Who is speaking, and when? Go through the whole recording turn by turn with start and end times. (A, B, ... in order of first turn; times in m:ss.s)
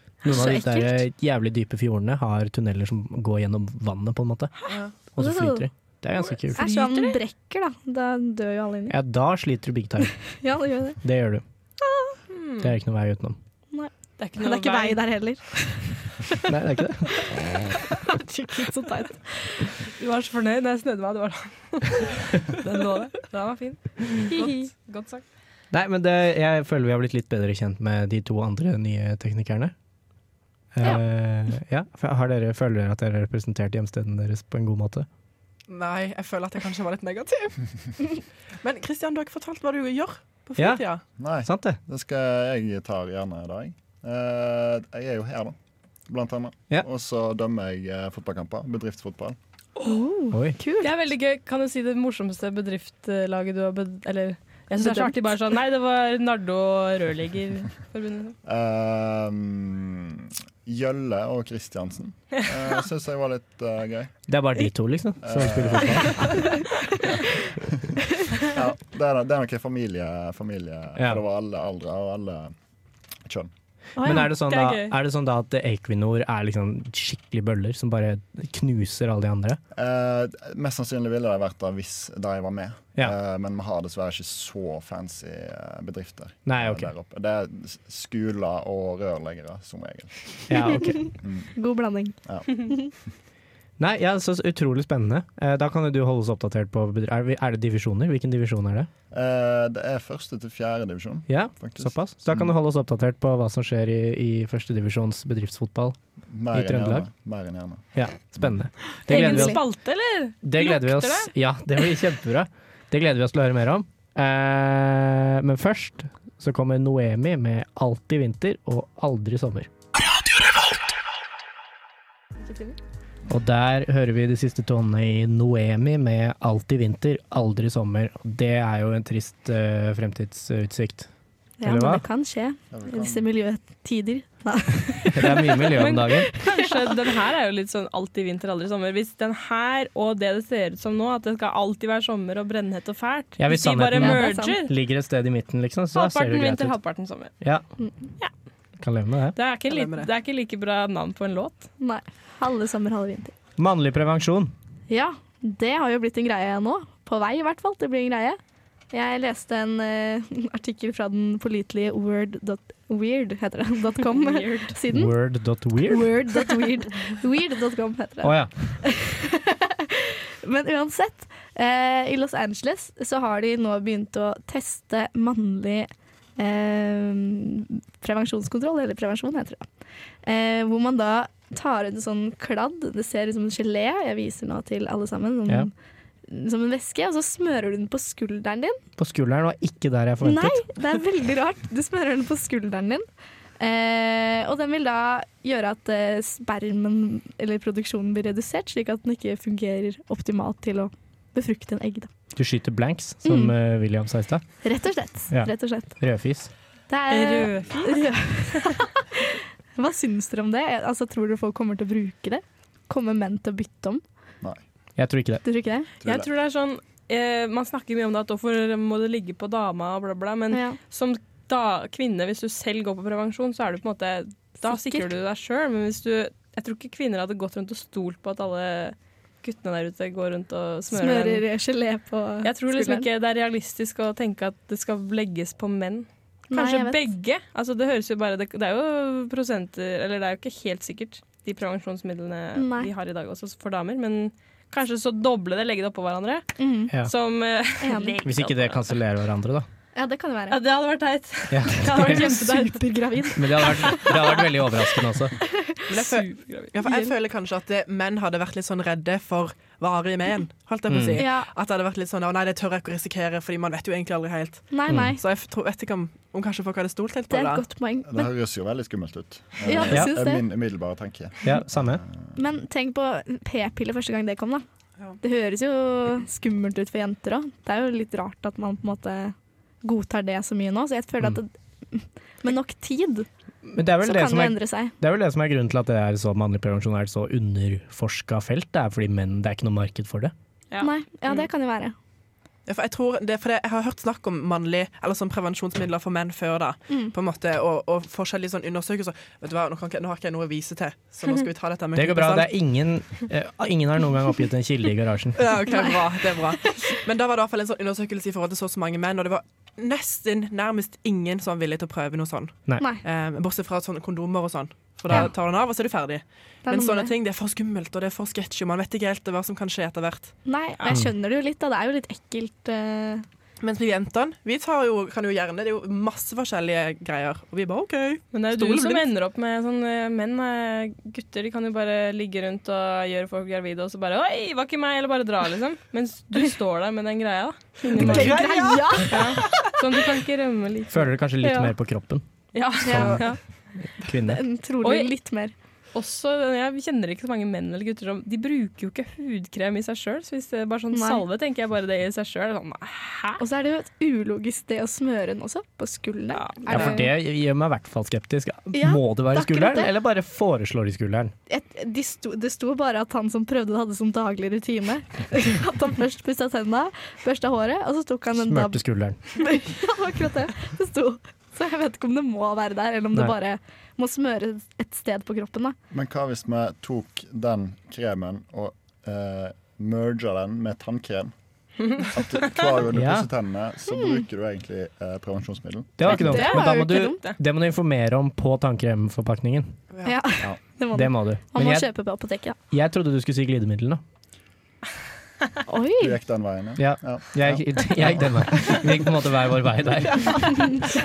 0:00.2-0:04.5 A
0:00.2-0:01.0 B
0:05.1-0:06.6 A
0:05.2-0:05.6 B
0:06.2-0:07.2 C
0:06.6-0:09.0 B
0:08.9-0:10.1 A
0:10.4-0:11.0 B
0:11.0-0:11.4 A
0:12.3-0:12.7 C
0:12.6-0:13.4 A
0:13.7-0:16.4 B
0:14.2-0:15.0 C
0:16.5-0:17.1 A
0:17.8-0:19.7 B
0:20.0-0:25.2 C
0:24.3-0:24.6 B
0:25.7-0:29.7 A
0:30.7-0:35.1 A
0:35.7-0:37.6 D
0:38.6-0:41.0 D
0:40.6-0:40.8 A
0:41.2-0:45.5 E
0:41.4-0:41.8 A
0:46.1-0:49.4 E
0:49.8-0:50.9 B
0:50.3-0:50.6 A
0:50.8-0:58.4 C
0:54.8-0:55.1 B
0:58.4-1:04.1 E
1:04.3-1:06.4 A
1:05.2-1:06.5 E
1:08.4-1:12.5 E
1:13.2-1:13.5 E
1:14.0-1:14.3 B
1:14.0-1:19.6 A
1:14.1-1:14.9 C
1:19.7-1:30.4 E
1:26.4-1:26.9 A
1:30.5-1:31.0 A
1:31.0-1:32.9 B
1:31.2-1:31.5 E
1:32.2-1:32.6 E
1:33.8-1:38.9 A
1:39.1-1:42.5 E
1:41.3-1:46.0 A
1:46.3-1:48.6 E
1:46.5-1:47.1 A
1:47.9-1:49.6 A
1:49.0-1:51.3 C
1:49.1-1:49.6 B
1:50.4-1:59.7 A
2:03.3-2:11.1 A
2:11.6-2:15.5 B
2:11.6-2:12.0 A
2:12.7-2:13.3 E
2:15.1-2:16.3 A
2:15.7-2:24.7 C
2:16.2-2:16.7 B
2:23.4-2:26.8 A
2:24.0-2:24.6 B
2:25.9-2:27.3 C
2:27.4-2:27.6 A
2:27.8-2:28.1 B
2:28.8-2:29.4 A
2:29.3-2:31.7 C
2:29.7-2:30.1 D
2:31.8-2:33.3 B
2:33.6-2:34.5 A
2:34.9-2:38.4 B
2:38.9-2:45.2 B
2:44.1-2:44.8 C
2:44.9-2:46.1 A
2:45.8-2:59.7 B
2:48.2-2:48.5 A
3:00.2-3:05.7 B
3:06.3-3:08.8 B
3:09.0-3:10.6 A
3:10.2-3:13.0 B
3:13.6-3:22.1 B
3:22.3-3:24.4 A
3:23.2-3:23.5 B
3:24.6-3:26.0 B
3:25.3-3:26.5 A
3:26.9-3:34.0 B
3:27.1-3:28.7 C
3:35.0-3:35.4 A
3:35.4-3:35.9 B
3:36.0-3:51.4 C
3:40.5-3:40.8 B
3:44.6-3:45.1 B
3:50.9-3:53.0 B
3:52.4-4:09.0 C
3:56.5-3:57.0 B
4:02.6-4:02.9 B
4:06.6-4:06.9 B
4:07.8-4:08.2 B
4:08.2-4:09.6 A
4:09.9-4:10.6 B
4:10.5-4:14.5 C
4:11.5-4:12.2 A
4:11.8-4:14.4 B
4:13.3-4:15.3 A
4:15.5-4:15.9 B
4:15.9-4:27.6 D
4:16.0-4:16.7 C
4:16.8-4:17.1 B
4:20.9-4:21.2 A
4:21.1-4:21.5 B
4:24.7-4:25.2 B
4:24.9-4:25.1 A
4:27.3-4:28.3 B
4:28.1-4:32.4 E
4:29.6-4:30.4 B
4:29.9-4:30.1 A
4:31.4-4:32.0 A
4:32.4-4:34.6 B
4:35.2-4:43.3 B
4:43.6-4:50.3 A
4:44.0-4:44.9 B
4:50.7-4:51.5 C
4:50.8-4:51.9 B
4:52.7-5:02.5 D
5:01.9-5:05.4 A
5:05.4-5:20.3 D
5:16.6-5:17.1 B
5:20.4-5:23.2 B
5:23.6-5:29.1 D
5:28.3-5:41.1 C
5:37.8-5:39.7 B
5:38.0-5:39.1 A
5:40.9-5:42.2 A
5:41.4-5:41.7 B
5:42.5-5:43.4 C
5:42.8-5:43.3 B
5:42.9-5:43.2 A
5:44.0-5:44.4 A
5:44.2-5:45.5 B
5:44.8-5:45.1 C
5:45.9-5:53.4 C
5:50.9-5:51.2 B
5:53.4-5:57.1 B
5:56.3-5:57.0 C
5:56.7-6:01.3 A
5:58.7-5:59.9 B
6:01.5-6:15.8 B
6:08.4-6:09.2 A
6:15.9-6:21.3 E
6:22.0-6:26.3 E
6:22.9-6:23.3 A
6:23.9-6:24.2 B
6:26.0-6:29.8 A
6:26.0-6:27.2 B
6:26.3-6:27.3 C
6:29.9-6:30.2 D
6:30.0-6:32.6 B
6:30.9-6:31.9 A
6:32.7-6:34.0 A
6:35.7-6:36.2 B
6:36.0-6:38.7 E
6:36.8-6:40.6 A
6:40.3-6:40.8 B